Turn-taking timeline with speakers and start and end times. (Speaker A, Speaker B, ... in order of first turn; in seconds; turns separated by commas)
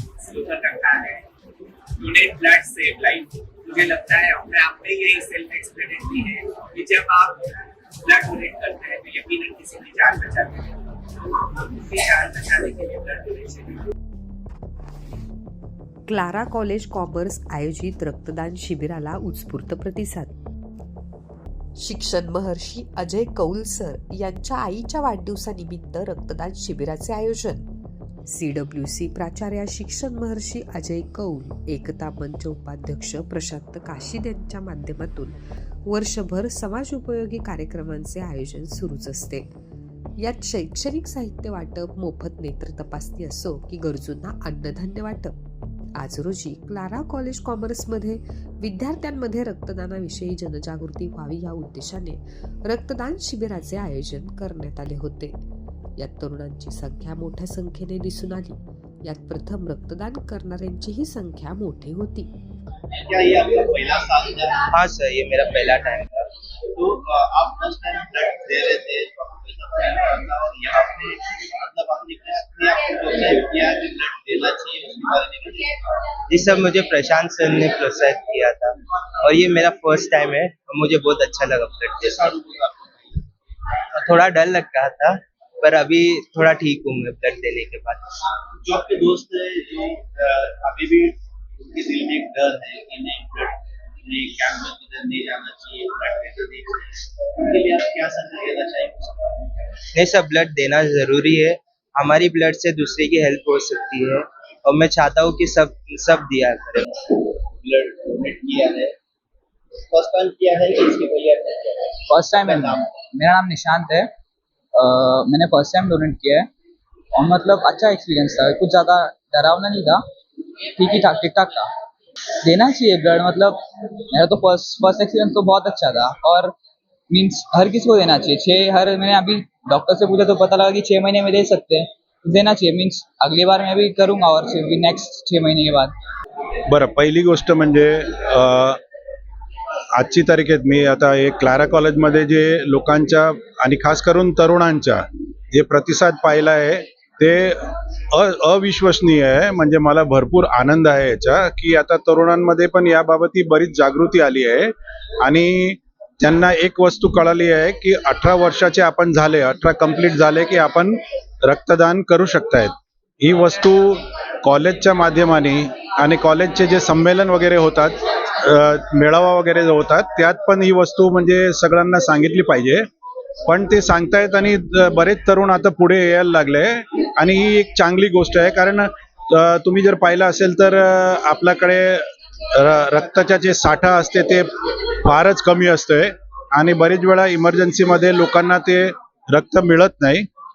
Speaker A: 0.2-1.2, Speaker A: 2.0-7.4, Speaker A: 8.1-10.7, Speaker A: 11.6-13.8, Speaker B: 16.1-20.3, Speaker B: 21.8-27.7, Speaker B: 28.3-39.5, Speaker B: 40.2-45.3, Speaker B: 46.0-55.4, Speaker B: 56.0-62.3, Speaker C: 63.0-64.6, Speaker D: 64.7-66.3, Speaker C: 66.8-75.7, Speaker D: 76.3-78.7, Speaker D: 79.2-82.3, Speaker C: 82.1-83.2, Speaker D: 84.0-88.0, Speaker C: 88.6-91.2, Speaker C: 91.7-99.5, Speaker D: 100.0-106.9, Speaker C: 107.1-108.9, Speaker C: 109.9-112.8, Speaker E: 112.1-114.1, Speaker E: 114.8-116.5, Speaker E: 117.2-120.0, Speaker E: 120.8-121.7, Speaker E: 122.4-123.6, Speaker E: 124.1-126.5, Speaker E: 127.1-135.9, Speaker F: 136.7-138.8, Speaker F: 139.9-172.9, Speaker F: 173.5-184.5, Speaker F: 185.0-190.3